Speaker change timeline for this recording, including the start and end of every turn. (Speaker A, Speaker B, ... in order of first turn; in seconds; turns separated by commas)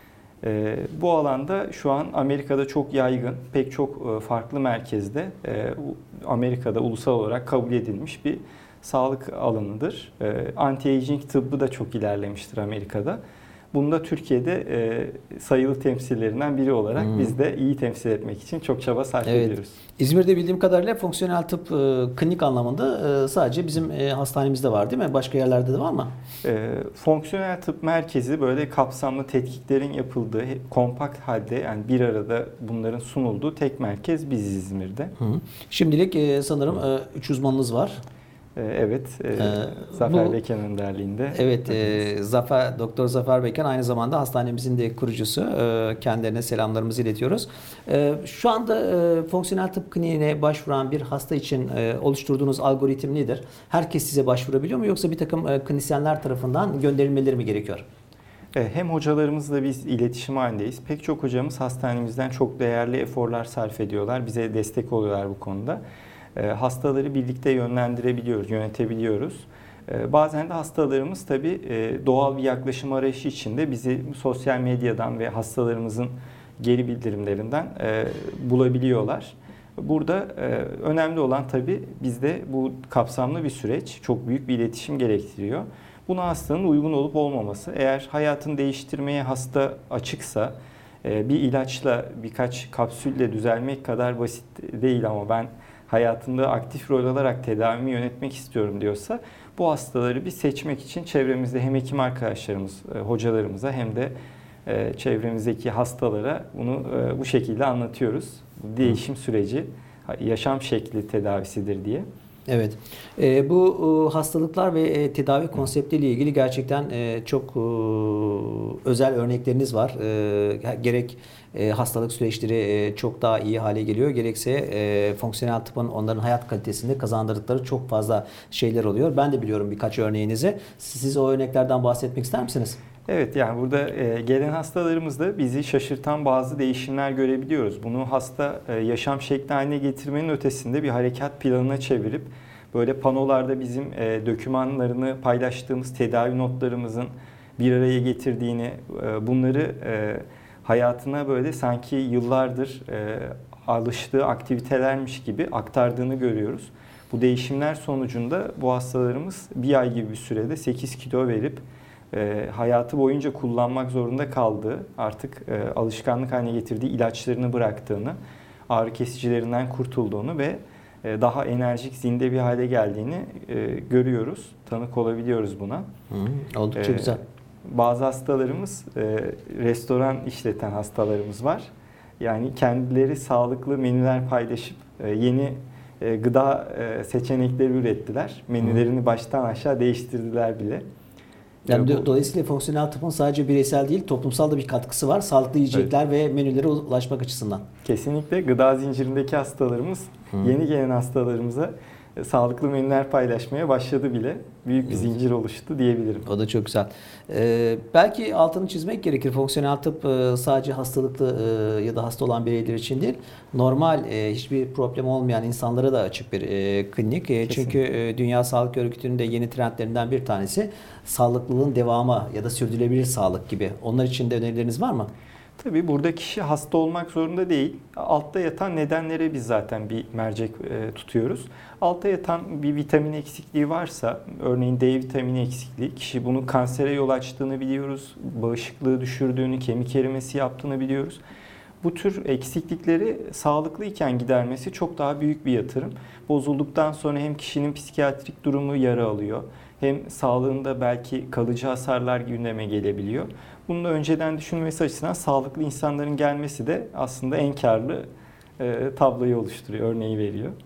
Speaker A: 0.4-13.2, Speaker A: 13.7-19.8, Speaker B: 17.0-17.3, Speaker B: 19.2-26.1, Speaker A: 26.4-35.1, Speaker B: 35.2-38.0, Speaker A: 38.5-41.9, Speaker B: 39.4-40.3, Speaker B: 41.3-57.8, Speaker A: 58.5-65.8, Speaker A: 66.3-104.1, Speaker A: 104.7-112.0, Speaker B: 112.5-132.8, Speaker A: 133.1-168.2, Speaker A: 168.7-175.8, Speaker B: 176.1-177.2, Speaker A: 176.8-181.7, Speaker A: 182.2-190.8, Speaker B: 191.7-197.6, Speaker A: 191.7-192.1, Speaker A: 197.8-206.3, Speaker B: 206.2-225.1, Speaker A: 217.4-217.8, Speaker A: 225.6-241.2, Speaker A: 241.8-258.1, Speaker A: 258.6-260.5